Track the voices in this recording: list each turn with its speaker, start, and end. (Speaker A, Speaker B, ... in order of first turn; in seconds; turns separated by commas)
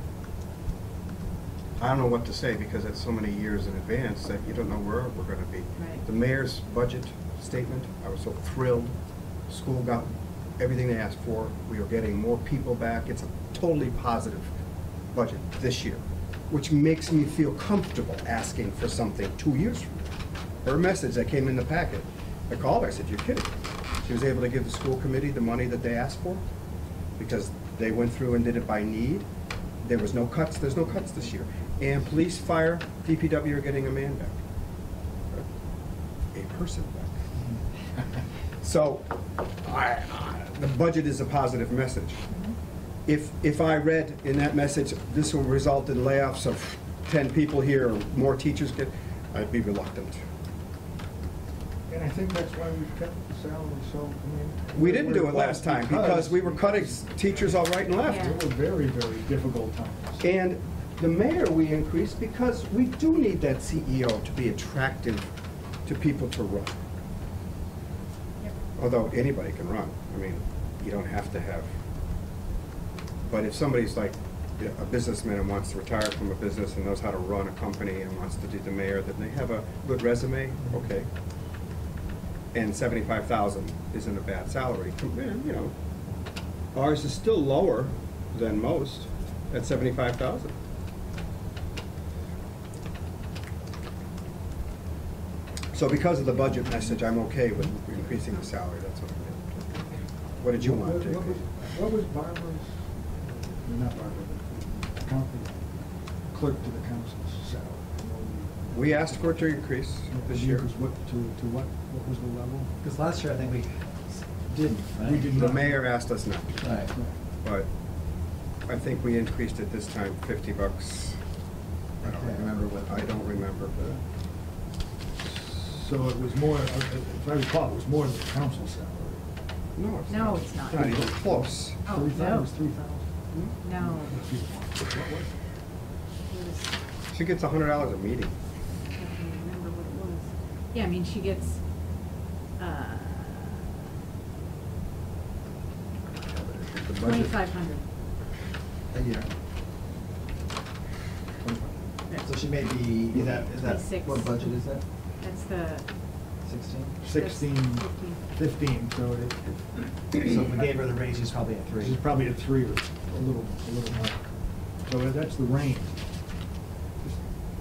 Speaker A: 1.8-8.9, Speaker B: 5.8-6.0, Speaker A: 9.5-14.5, Speaker A: 15.1-20.1, Speaker A: 20.6-26.4, Speaker A: 27.2-29.2, Speaker A: 29.8-34.4, Speaker A: 36.3-37.1, Speaker A: 38.6-42.2, Speaker A: 43.1-50.2, Speaker C: 51.9-60.2, Speaker A: 54.7-58.3, Speaker B: 58.0-58.4, Speaker A: 60.2-65.3, Speaker A: 65.8-66.8, Speaker A: 68.8-71.7, Speaker A: 73.3-81.1, Speaker A: 82.5-85.7, Speaker A: 86.7-90.5, Speaker A: 95.7-99.6, Speaker A: 100.4-101.5, Speaker C: 100.5-105.5, Speaker C: 106.3-112.7, Speaker A: 108.7-110.7, Speaker D: 112.8-115.5, Speaker C: 115.0-115.8, Speaker A: 115.3-116.8, Speaker D: 116.6-116.9, Speaker C: 116.9-117.1, Speaker A: 117.4-117.7, Speaker A: 118.7-121.2, Speaker A: 122.0-124.0, Speaker D: 122.0-123.3, Speaker C: 125.2-129.2, Speaker A: 129.8-131.8, Speaker B: 130.1-131.0, Speaker C: 130.7-133.1, Speaker B: 131.8-132.5, Speaker B: 133.6-134.2, Speaker C: 133.8-135.4, Speaker B: 136.3-136.7, Speaker A: 137.1-138.3, Speaker B: 139.0-141.6, Speaker B: 142.6-143.8, Speaker A: 146.2-147.4, Speaker B: 146.9-147.8, Speaker D: 148.9-149.3, Speaker C: 151.4-151.8, Speaker D: 152.2-154.8, Speaker B: 153.3-154.5, Speaker B: 155.2-155.9, Speaker D: 156.4-157.0, Speaker C: 157.0-160.6, Speaker B: 157.1-158.2, Speaker D: 160.2-162.1, Speaker C: 161.8-164.2, Speaker C: 164.8-166.0